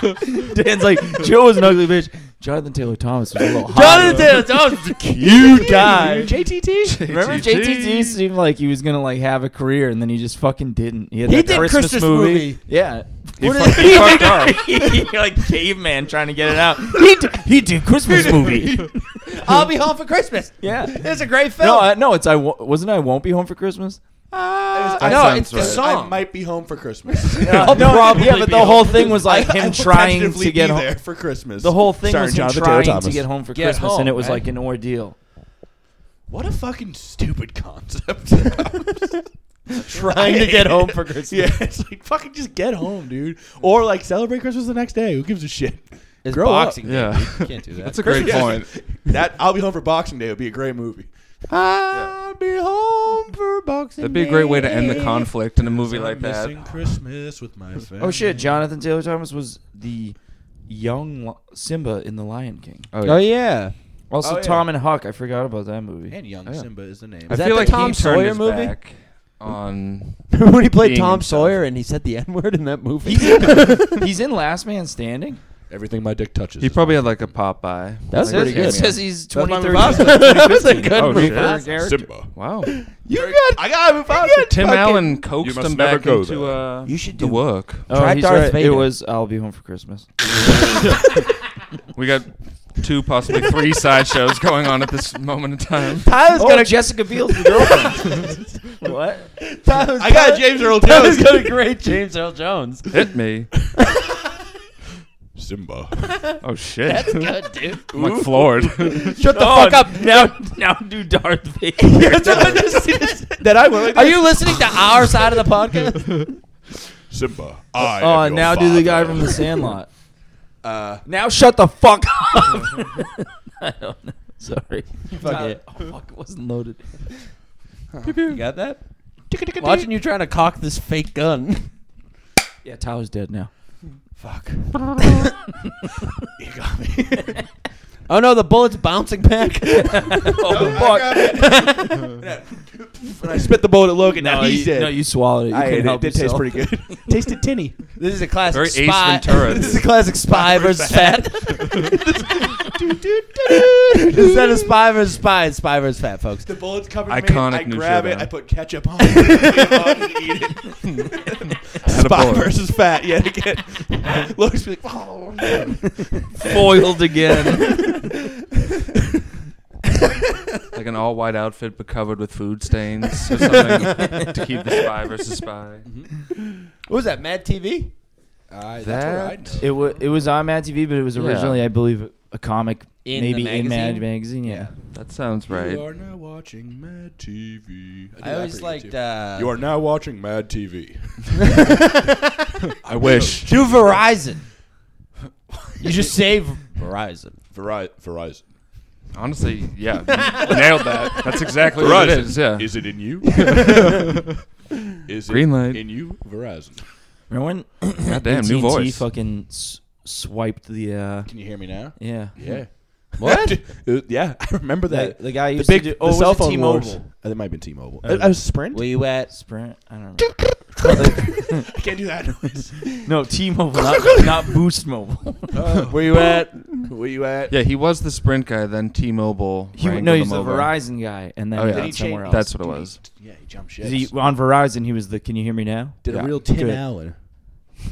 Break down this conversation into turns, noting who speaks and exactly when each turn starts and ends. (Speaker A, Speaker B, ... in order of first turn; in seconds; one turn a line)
Speaker A: 0.4-4.4
Speaker B: 3.7-6.4
Speaker C: 5.2-7.3
Speaker D: 5.5-6.1
Speaker D: 6.8-8.2
Speaker A: 7.1-18.9
Speaker B: 11.3-12.7
Speaker D: 13.4-14.6
Speaker B: 13.4-14.5
Speaker C: 18.1-18.9
Speaker B: 18.2-21.9
Speaker A: 20.6-24.0
Speaker B: 24.3-26.3
Speaker C: 24.7-34.1
Speaker D: 25.0-25.9
Speaker B: 27.1-29.3
Speaker A: 27.4-31.0
Speaker A: 31.6-35.1
Speaker B: 33.5-34.4
Speaker C: 36.3-46.8
Speaker B: 39.7-41.5
Speaker B: 46.2-48.7
Speaker D: 46.8-48.7
Speaker C: 48.0-51.1
Speaker B: 51.5-55.3
Speaker D: 54.0-56.8
Speaker C: 55.6-58.4
Speaker A: 58.0-60.2
Speaker A: 60.7-62.9
Speaker D: 62.9-63.2
Speaker B: 63.0-63.7
Speaker A: 64.1-66.2
Speaker C: 64.2-64.7
Speaker C: 66.1-67.9
Speaker D: 67.3-71.6
Speaker B: 67.3-68.8
Speaker B: 70.3-74.0
Speaker A: 73.0-75.4
Speaker C: 75.7-77.3
Speaker D: 76.6-79.0
Speaker B: 78.1-79.0
Speaker A: 78.2-82.1
Speaker C: 78.7-82.3
Speaker B: 79.7-81.9
Speaker D: 81.0-81.6
Speaker D: 82.3-82.7
Speaker B: 82.7-85.1
Speaker C: 83.1-86.7
Speaker D: 84.5-87.9
Speaker B: 86.8-88.9
Speaker A: 87.9-90.1
Speaker D: 91.9-96.1
Speaker B: 96.0-98.5
Speaker A: 96.4-99.3
Speaker B: 99.4-103.0
Speaker C: 100.0-101.6
Speaker D: 102.9-103.6
Speaker B: 103.8-104.3
Speaker C: 105.3-106.1
Speaker B: 106.0-108.0
Speaker D: 106.4-107.3
Speaker D: 107.9-109.2
Speaker C: 107.9-108.8
Speaker B: 108.8-110.4
Speaker A: 109.2-112.6
Speaker B: 111.8-116.3
Speaker C: 112.0-115.2
Speaker C: 117.1-119.7
Speaker A: 117.8-119.9
Speaker C: 120.6-121.0
Speaker A: 121.1-127.1
Speaker B: 125.1-125.6
Speaker C: 127.9-128.3
Speaker B: 128.1-128.8
Speaker C: 129.3-129.9
Speaker B: 129.6-131.7
Speaker A: 132.6-133.5
Speaker B: 134.2-135.3
Speaker C: 136.4-137.4
Speaker B: 138.1-142.2
Speaker A: 139.7-141.4
Speaker C: 140.4-147.8
Speaker A: 144.2-147.1
Speaker B: 148.0-152.7
Speaker D: 148.5-149.9
Speaker C: 149.4-154.7
Speaker B: 153.6-156.5
Speaker C: 156.4-166.7
Speaker D: 157.1-158.3
Speaker B: 159.2-159.7
Speaker D: 161.8-162.5
Speaker A: 166.4-167.9
Speaker B: 170.0-170.4
Speaker D: 170.7-175.9
Speaker B: 173.3-174.3
Speaker B: 176.8-177.9
Speaker C: 178.5-180.0
Speaker D: 178.8-179.6
Speaker A: 179.6-184.7
Speaker D: 181.2-181.6
Speaker B: 183.1-184.1
Speaker C: 184.4-184.7
Speaker D: 184.9-185.8
Speaker C: 185.5-191.6
Speaker B: 188.2-189.6
Speaker B: 191.5-192.3
Speaker C: 192.8-194.0
Speaker D: 193.1-193.4
Speaker B: 193.2-194.4
Speaker C: 195.8-196.2
Speaker B: 195.8-197.4
Speaker C: 197.5-198.4
Speaker D: 199.1-204.1
Speaker B: 200.4-201.5
Speaker C: 201.6-203.9
Speaker B: 203.4-203.9
Speaker C: 205.1-206.8
Speaker D: 205.3-205.9
Speaker A: 207.3-212.3
Speaker D: 208.0-209.0
Speaker C: 211.3-218.8
Speaker B: 213.2-213.6
Speaker A: 214.9-217.1
Speaker A: 218.0-218.4
Speaker B: 218.7-219.3
Speaker A: 219.3-221.7
Speaker C: 220.7-222.9
Speaker A: 223.1-225.6
Speaker C: 225.5-227.6
Speaker B: 225.9-226.9
Speaker D: 227.5-230.8
Speaker A: 229.8-232.5
Speaker D: 231.6-233.0
Speaker C: 231.7-234.1
Speaker A: 233.8-236.8
Speaker C: 236.0-237.2